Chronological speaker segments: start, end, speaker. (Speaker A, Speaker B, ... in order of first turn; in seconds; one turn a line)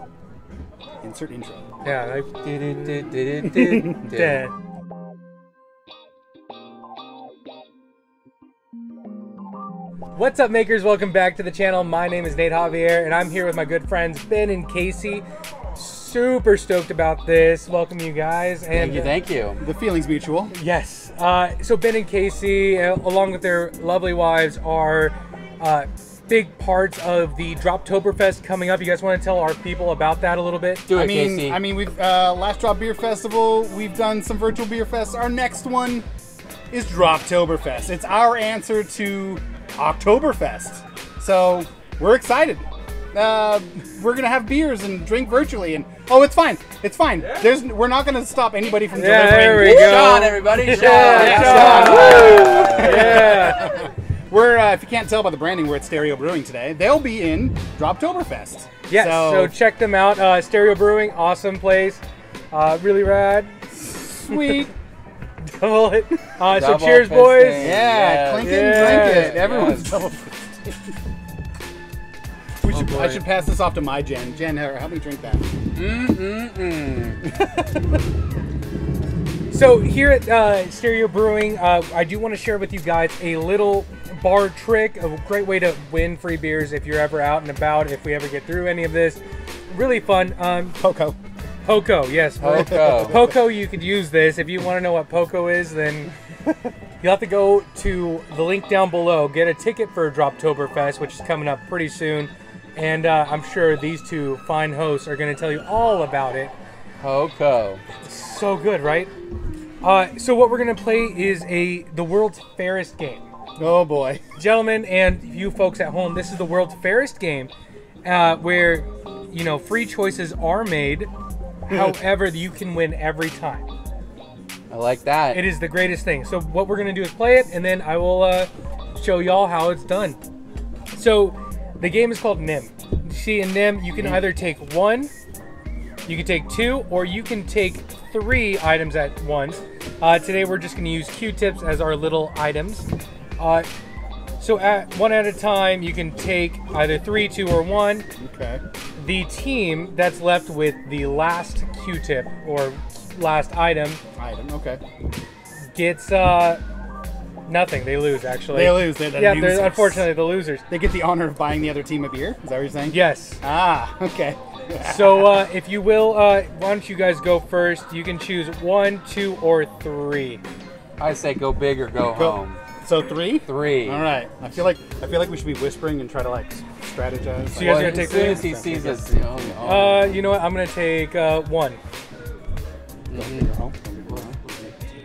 Speaker A: 1.0-1.6
Speaker B: 1.8-4.5
Speaker C: 2.4-4.4
Speaker B: 10.2-19.1
Speaker C: 18.7-19.6
Speaker A: 19.6-20.5
Speaker B: 20.5-30.9
Speaker C: 30.9-31.6
Speaker A: 30.9-36.1
Speaker A: 36.7-59.5
Speaker B: 48.9-53.7
Speaker C: 49.4-53.4
Speaker B: 58.9-63.6
Speaker A: 63.8-64.7
Speaker B: 64.3-64.6
Speaker B: 65.5-67.7
Speaker C: 66.5-70.1
Speaker A: 67.6-70.8
Speaker B: 68.4-69.5
Speaker A: 72.6-75.5
Speaker C: 72.7-73.2
Speaker C: 75.8-77.2
Speaker A: 77.3-77.8
Speaker B: 79.5-90.8
Speaker A: 90.8-91.2
Speaker B: 91.7-96.1
Speaker C: 92.4-93.3
Speaker A: 92.9-93.3
Speaker B: 97.0-106.5
Speaker C: 107.0-107.8
Speaker B: 108.0-109.1
Speaker B: 109.8-113.3
Speaker A: 113.6-114.2
Speaker B: 114.4-117.5
Speaker B: 118.0-121.1
Speaker B: 121.7-123.7
Speaker A: 121.7-122.0
Speaker C: 124.7-125.5
Speaker B: 125.3-130.2
Speaker B: 130.9-135.1
Speaker B: 136.1-142.9
Speaker B: 143.4-143.7
Speaker B: 144.4-148.1
Speaker A: 148.2-148.6
Speaker B: 149.0-154.0
Speaker A: 154.2-154.8
Speaker B: 155.7-156.6
Speaker B: 157.5-160.7
Speaker A: 158.5-160.1
Speaker A: 160.7-165.4
Speaker B: 162.9-163.4
Speaker B: 164.8-170.4
Speaker C: 171.0-172.6
Speaker A: 172.1-179.9
Speaker C: 173.5-174.1
Speaker B: 177.5-178.5
Speaker C: 177.6-180.2
Speaker B: 179.6-181.8
Speaker C: 183.1-183.5
Speaker A: 183.1-184.4
Speaker C: 184.1-184.8